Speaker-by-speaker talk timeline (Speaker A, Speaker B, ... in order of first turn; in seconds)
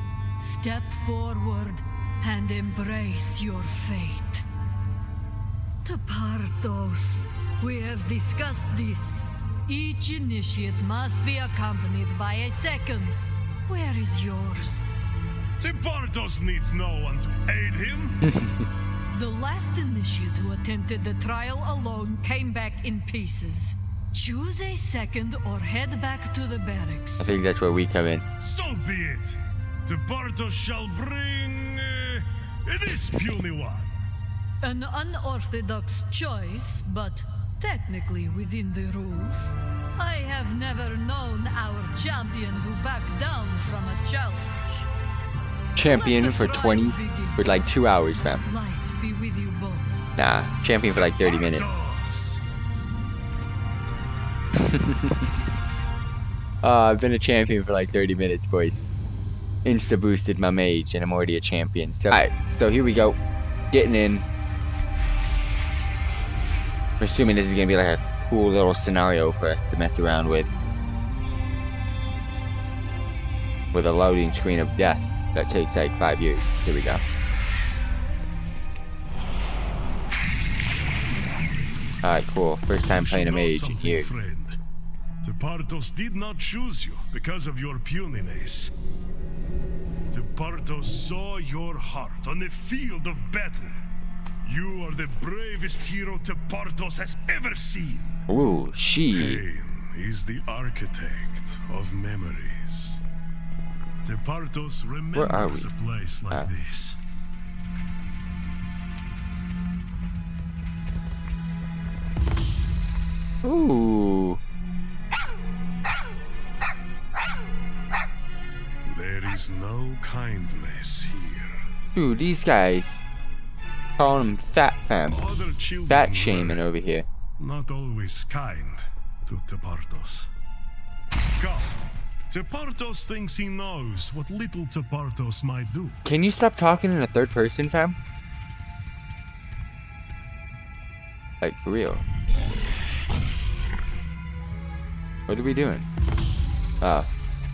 Speaker A: 0.4-4.4, 5.8-14.8, 19.1-27.3, 34.6-44.9, 45.9-47.6, 48.4-50.0
Speaker B: 15.6-18.2, 28.4-33.9, 50.9-52.4, 82.9-84.6, 85.2-88.7, 90.1-93.8, 94.4-98.2, 99.1-103.0, 104.0-107.0, 118.8-121.7, 125.1-126.7, 127.4-130.3, 131.4-131.8, 132.3-136.0
Speaker C: 18.3-18.7, 27.2-28.2, 45.8-48.5, 50.2-51.7, 54.5-55.2, 56.6-58.9, 59.6-63.2, 63.7-64.2, 67.0-70.5, 73.7-77.0, 82.0-84.2, 98.3-99.4, 105.1-105.7, 113.4-114.4, 121.9-123.0, 124.0-125.2, 125.9-127.1, 136.1-138.0, 141.4-142.1, 145.3-145.9, 146.8-147.1